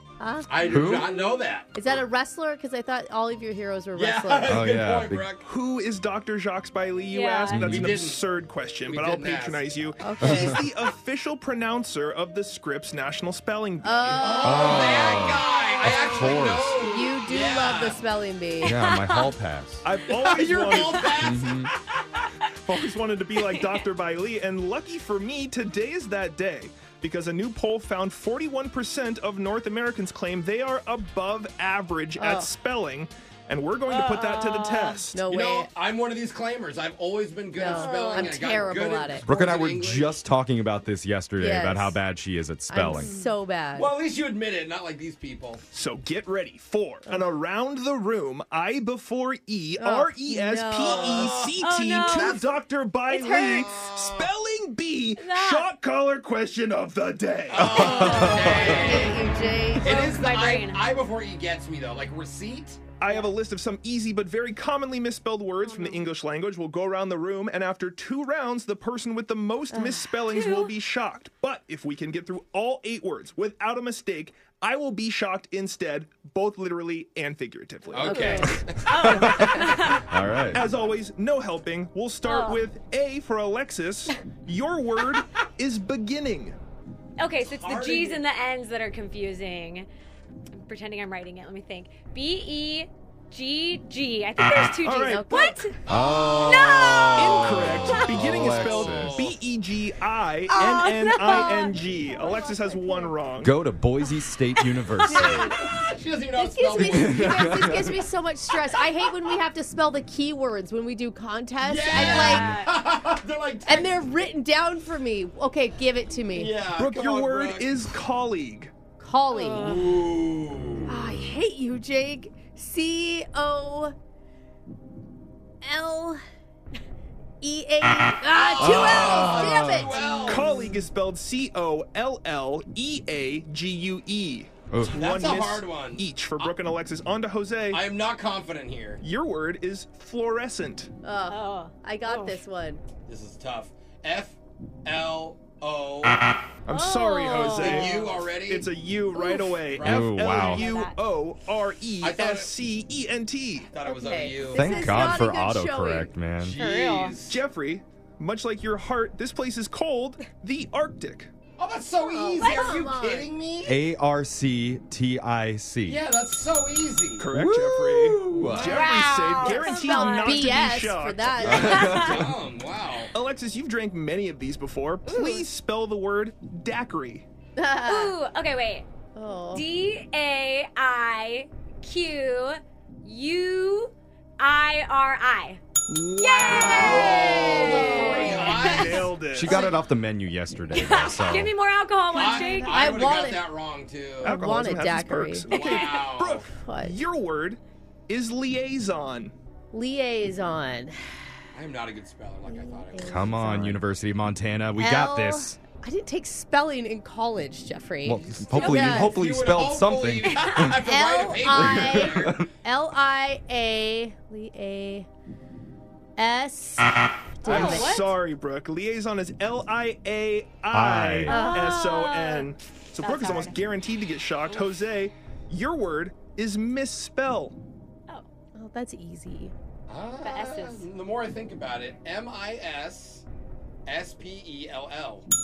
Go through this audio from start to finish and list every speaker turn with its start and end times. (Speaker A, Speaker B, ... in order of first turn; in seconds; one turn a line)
Speaker A: 0.2-0.8
Speaker B: 0.5-1.7
Speaker C: 0.7-1.1
Speaker A: 1.7-4.6
Speaker B: 3.9-5.4
Speaker C: 4.5-5.3
Speaker D: 5.4-14.5
Speaker E: 7.1-7.7
Speaker C: 7.5-8.0
Speaker B: 7.6-8.2
Speaker B: 8.8-9.7
Speaker A: 10.0-10.6
Speaker C: 10.2-10.6
Speaker A: 13.8-15.0
Speaker B: 14.2-18.0
Speaker C: 14.4-16.8
Speaker E: 14.8-16.4
Speaker A: 16.8-18.7
Speaker C: 18.6-19.8
Speaker E: 18.6-19.3
Speaker D: 19.8-21.2
Speaker B: 20.1-21.6
Speaker E: 20.4-21.2
Speaker C: 21.2-21.7
Speaker D: 22.6-35.3
Speaker E: 22.7-23.9
Speaker A: 32.2-32.5
Speaker E: 33.9-35.1
Speaker A: 35.1-35.7
Speaker B: 35.3-40.2
Speaker A: 37.5-39.2
Speaker E: 37.7-38.7
Speaker C: 39.2-43.1
Speaker A: 41.4-42.0
Speaker A: 42.7-43.9
Speaker E: 43.0-43.3
Speaker B: 43.7-45.6
Speaker D: 45.7-58.2
Speaker A: 47.1-47.3
Speaker A: 49.8-51.3
Speaker B: 50.8-52.5
Speaker E: 51.6-52.5
Speaker E: 53.1-53.7
Speaker B: 53.3-54.3
Speaker E: 55.2-55.7
Speaker B: 57.5-59.2
Speaker C: 57.5-59.0
Speaker E: 57.9-59.1
Speaker A: 58.7-60.2
Speaker E: 59.7-60.9
Speaker B: 59.8-62.8
Speaker D: 63.0-78.6
Speaker E: 63.0-63.3
Speaker E: 65.6-66.1
Speaker A: 69.7-70.0
Speaker E: 70.3-70.7
Speaker B: 77.9-78.8
Speaker E: 78.0-80.0
Speaker A: 78.0-78.5
Speaker C: 78.9-80.6
Speaker D: 80.5-86.5
Speaker E: 82.2-82.7
Speaker E: 87.2-89.9
Speaker B: 87.4-88.2
Speaker E: 90.6-95.8
Speaker D: 94.6-95.3
Speaker A: 94.9-95.7
Speaker B: 95.8-99.4
Speaker C: 95.9-99.2
Speaker E: 96.3-97.4
Speaker D: 97.1-103.5
Speaker E: 100.5-103.2
Speaker A: 101.4-101.6
Speaker C: 103.4-105.5
Speaker E: 105.0-105.4
Speaker A: 105.0-105.6
Speaker B: 105.6-107.7
Speaker A: 106.4-112.5
Speaker C: 106.7-107.9
Speaker B: 111.6-113.9
Speaker E: 111.8-112.7
Speaker A: 113.7-116.5
Speaker B: 116.3-117.9
Speaker D: 116.8-118.7
Speaker A: 119.0-119.8
Speaker E: 119.3-120.0
Speaker B: 119.5-120.9
Speaker A: 120.9-123.9
Speaker A: 125.6-126.2
Speaker A: 127.4-130.7
Speaker B: 128.3-130.6
Speaker C: 128.6-130.0
Speaker D: 130.2-137.8
Speaker C: 134.7-135.1
Speaker B: 134.9-136.5
Speaker B: 137.7-139.0
Speaker D: 139.0-140.9
Speaker A: 141.0-142.8
Speaker E: 141.3-142.4
Speaker B: 143.1-146.3
Speaker D: 146.7-153.7
Speaker E: 146.7-148.2
Speaker B: 147.4-148.7
Speaker E: 149.1-151.0
Speaker C: 149.8-150.7
Speaker B: 152.0-152.5
Speaker B: 153.7-154.9
Speaker A: 153.8-156.1
Speaker C: 154.5-156.6
Speaker E: 154.6-155.2
Speaker B: 156.4-157.4
Speaker E: 156.6-157.2
Speaker D: 157.2-161.3
Speaker B: 161.6-163.7
Speaker A: 162.0-163.3
Speaker E: 162.4-162.8
Speaker C: 163.6-166.0
Speaker B: 165.8-167.3
Speaker D: 167.2-171.9
Speaker C: 167.3-168.9
Speaker B: 168.3-168.9
Speaker E: 168.6-170.7
Speaker A: 169.4-171.8
Speaker C: 171.4-172.3
Speaker E: 171.6-172.1
Speaker B: 171.7-173.1
Speaker D: 173.1-177.2
Speaker A: 175.1-175.4
Speaker A: 177.6-178.1
Speaker E: 177.8-178.8
Speaker A: 179.1-179.6
Speaker E: 179.5-185.6
Speaker D: 185.9-189.7
Speaker E: 186.1-189.6
Speaker A: 186.5-188.6
Speaker B: 186.5-189.1
Speaker C: 189.3-191.5
Speaker E: 190.7-193.2
Speaker A: 192.1-193.5
Speaker B: 192.1-194.4
Speaker D: 194.2-199.3
Speaker A: 194.2-195.5
Speaker B: 195.5-196.4
Speaker E: 195.5-196.0
Speaker A: 196.5-197.0
Speaker A: 199.7-200.9
Speaker B: 201.5-203.2
Speaker A: 202.5-203.8
Speaker C: 203.0-205.6
Speaker A: 204.8-209.2
Speaker C: 208.0-210.8
Speaker B: 208.5-212.3
Speaker A: 210.8-215.1
Speaker C: 211.5-212.5
Speaker A: 216.2-217.9
Speaker D: 217.4-227.6
Speaker E: 217.5-218.2
Speaker C: 220.7-221.4
Speaker E: 221.3-223.6
Speaker A: 221.3-221.8
Speaker E: 224.5-224.9
Speaker A: 228.5-229.5
Speaker B: 229.9-233.2
Speaker E: 230.2-230.9
Speaker B: 233.8-235.2